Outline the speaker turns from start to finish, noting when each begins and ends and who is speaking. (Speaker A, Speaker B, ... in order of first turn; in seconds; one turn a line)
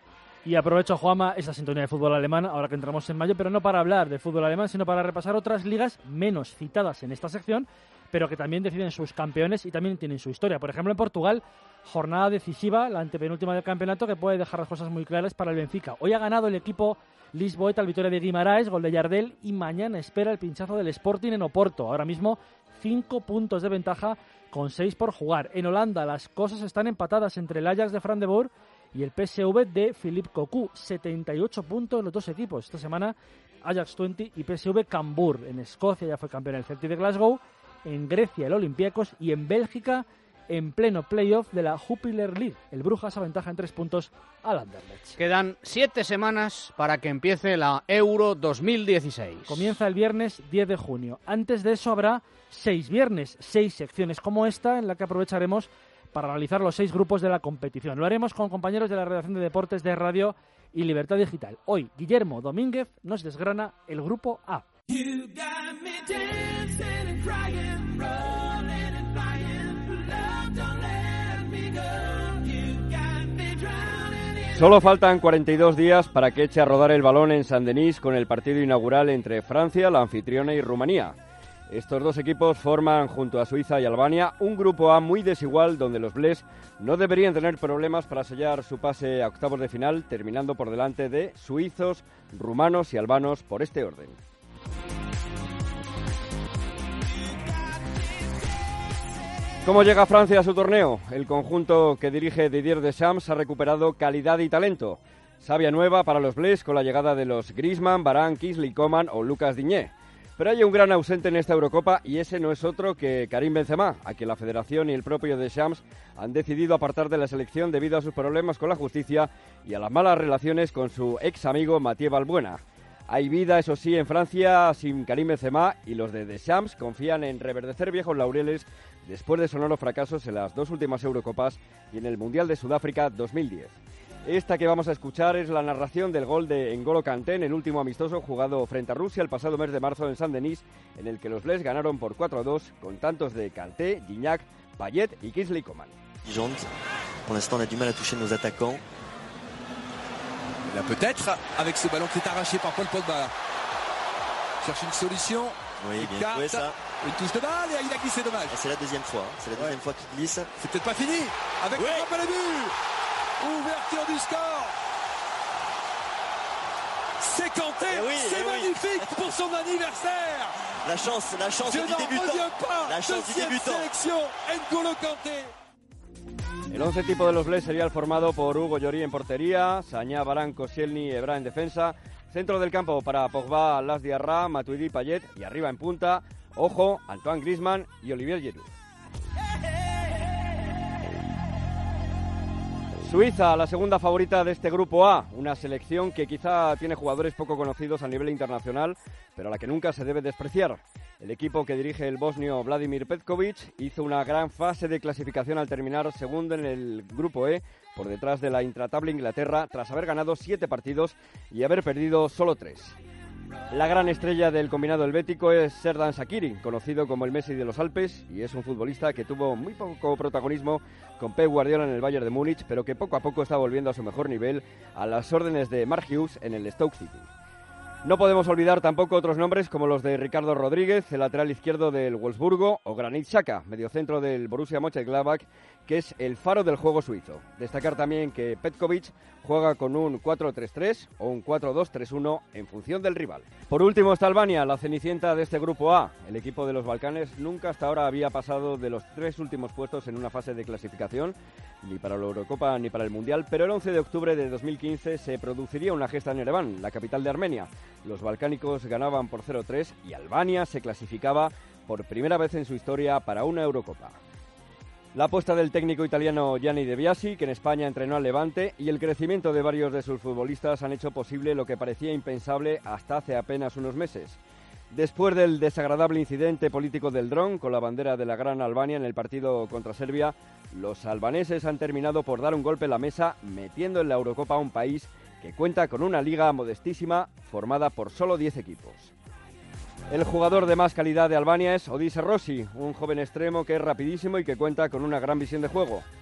Speaker A: 0.4-45.2
Speaker B: 45.2-49.7
Speaker A: 49.5-64.7
Speaker B: 65.0-71.6
Speaker B: 72.3-73.5
Speaker C: 74.5-81.2
Speaker C: 81.7-94.2
Speaker C: 99.6-145.9
Speaker D: 146.2-146.7
Speaker D: 147.2-148.8
Speaker E: 150.6-153.3
Speaker E: 154.6-158.6
Speaker D: 155.8-156.8
Speaker D: 158.5-160.5
Speaker E: 160.6-162.7
Speaker D: 161.7-162.1
Speaker E: 163.4-164.7
Speaker E: 167.2-170.6
Speaker D: 167.8-169.3
Speaker D: 170.8-173.9
Speaker E: 171.6-175.5
Speaker C: 176.7-188.7
Speaker C: 193.0-212.9
Speaker C: 213.7-227.3
Speaker C: 228.0-264.2
Speaker C: 265.1-274.4
Speaker C: 274.9-289.1
Speaker C: 290.1-296.0